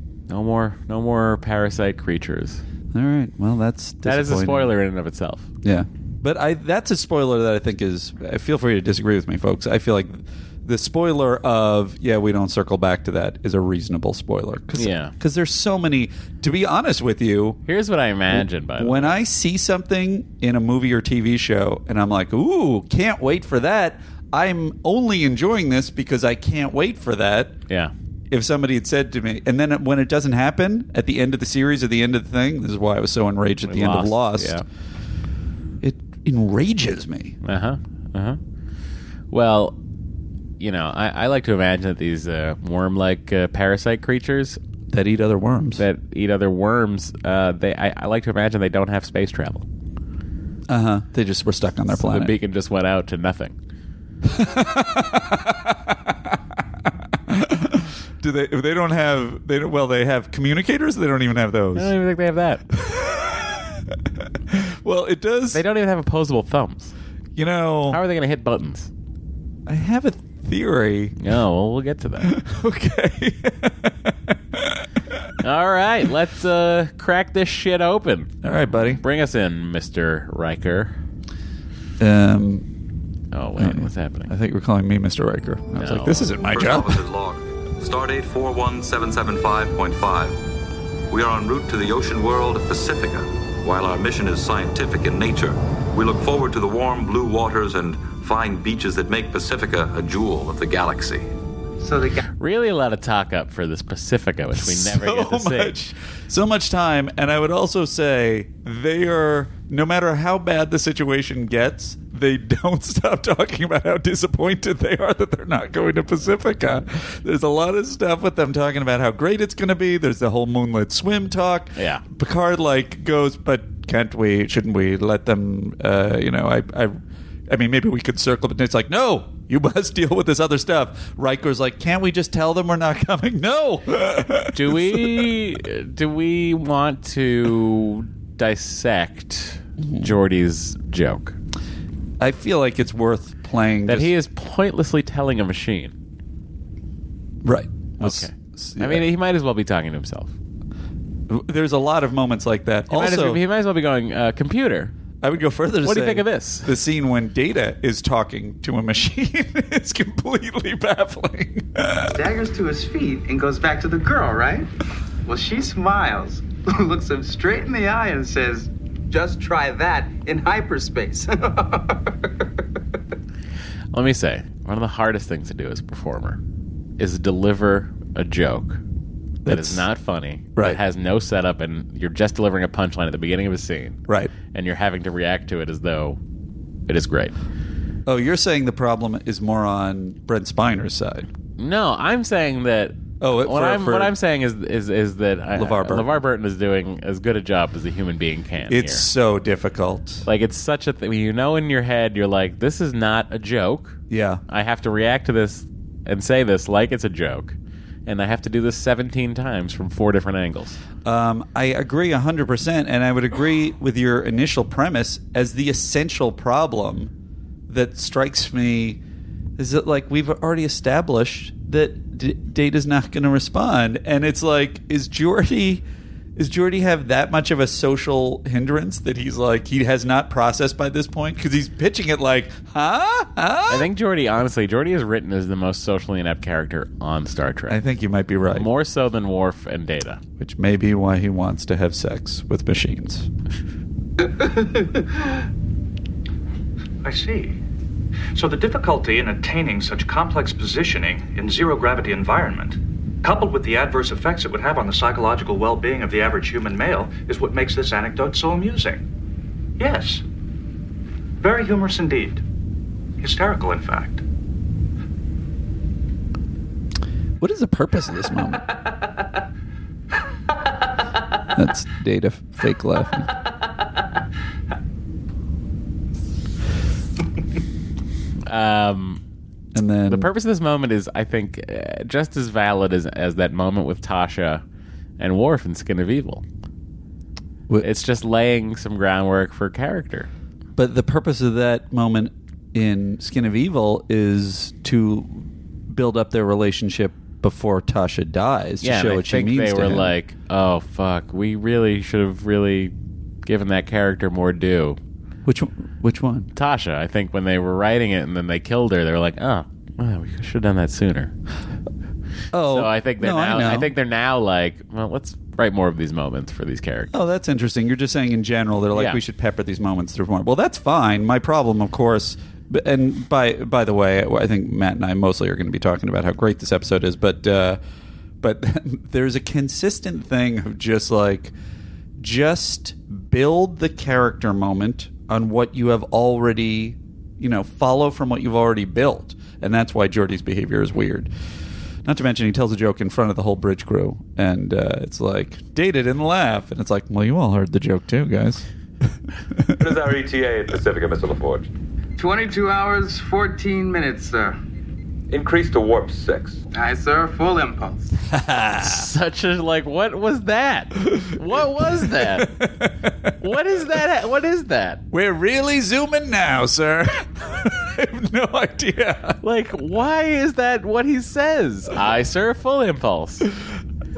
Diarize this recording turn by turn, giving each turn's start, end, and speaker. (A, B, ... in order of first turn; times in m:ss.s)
0:00.3-0:02.6 A
0:02.9-0:04.7 B
0:04.0-0:05.5 A
0:05.6-0:17.6 B
0:14.7-0:15.1 A
0:17.6-0:19.2 A
0:18.3-0:27.6 B
0:28.3-0:34.6 B
0:33.6-0:34.6 A
0:35.8-0:37.4 B
0:37.4-0:38.4 A
0:39.3-0:39.8 A
0:40.6-0:44.6 A
0:44.9-0:45.8 B
0:45.8-0:49.6 A
0:50.7-0:52.3 B
0:51.9-0:53.6 A
0:54.2-0:56.4 B
0:57.3-1:01.9 B
1:01.7-1:02.6 A
1:02.7-1:03.8 B
1:04.5-1:05.6 B
1:05.5-1:06.9 A
1:07.4-1:08.0 B
1:07.9-1:08.9 A
1:09.6-1:11.2 B
1:11.2-1:12.3 A
1:12.2-1:14.8 B
1:15.4-1:21.0 A
1:18.4-1:19.0 B
1:22.0-1:22.7 B
1:23.3-1:24.3 A
1:23.6-1:27.0 B
1:25.8-1:26.4 A
1:26.5-1:30.4 C
1:31.1-1:41.3 C
1:41.8-1:42.2 D
1:42.4-1:45.8 A
1:44.5-2:15.3 B
2:01.8-2:02.0 A
2:14.5-2:21.4 A
2:19.8-2:20.1 B
2:22.2-2:24.1 B
2:23.9-2:25.9 A
2:27.4-2:29.0 B
2:28.0-2:30.3 A
2:31.3-2:33.4 B
2:32.9-2:34.9 A
2:35.2-2:42.1 B
2:35.8-2:36.7 A
2:42.1-2:44.7 D
2:45.2-2:52.0 D
2:53.9-2:56.4 A
2:57.0-2:58.8 A
2:59.4-2:59.8 B
2:59.5-3:04.0 A
3:04.5-3:06.2 A
3:06.9-3:07.4 A
3:08.0-3:11.3 B
3:11.6-3:19.0 A
3:13.2-3:14.1 B
3:15.5-3:16.1 B
3:18.7-3:20.2 B
3:20.2-3:30.8 A
3:24.1-3:24.4 B
3:31.0-3:37.1 B
3:37.7-3:39.0 B
3:39.6-3:45.8 B
3:46.4-3:53.9 B
3:53.7-3:57.8 A
3:57.7-3:58.7 B
3:58.5-4:00.2 A
4:00.4-4:03.3 B
4:07.0-4:07.6 E
4:08.3-4:19.0 E
4:19.8-4:20.2 E
4:21.4-4:22.4 E
4:23.2-4:24.2 E
4:27.4-4:28.7 B
4:31.5-4:33.3 B
4:38.5-4:39.2 A
4:39.7-4:40.3 B
4:40.1-4:44.6 A
4:45.2-4:46.4 A
4:47.8-4:50.3 A
4:50.8-5:00.1 B
4:58.8-5:02.9 A
5:03.4-5:05.0 A
5:05.4-5:06.5 B
5:06.5-5:11.3 A
5:12.5-5:13.9 B
5:12.7-5:17.1 A
5:17.1-5:27.8 B
5:18.9-5:19.2 A
5:28.4-5:31.5 B
5:32.2-5:41.3 B
5:42.0-5:48.6 B
5:49.8-5:51.7 C
5:52.2-5:54.6 D
5:55.3-5:56.6 C
5:56.7-5:58.1 D
5:58.3-5:59.1 B
5:58.8-6:02.5 A
6:01.1-6:03.3 B
6:03.4-6:05.0 A
6:05.1-6:09.4 B
6:09.4-6:13.5 A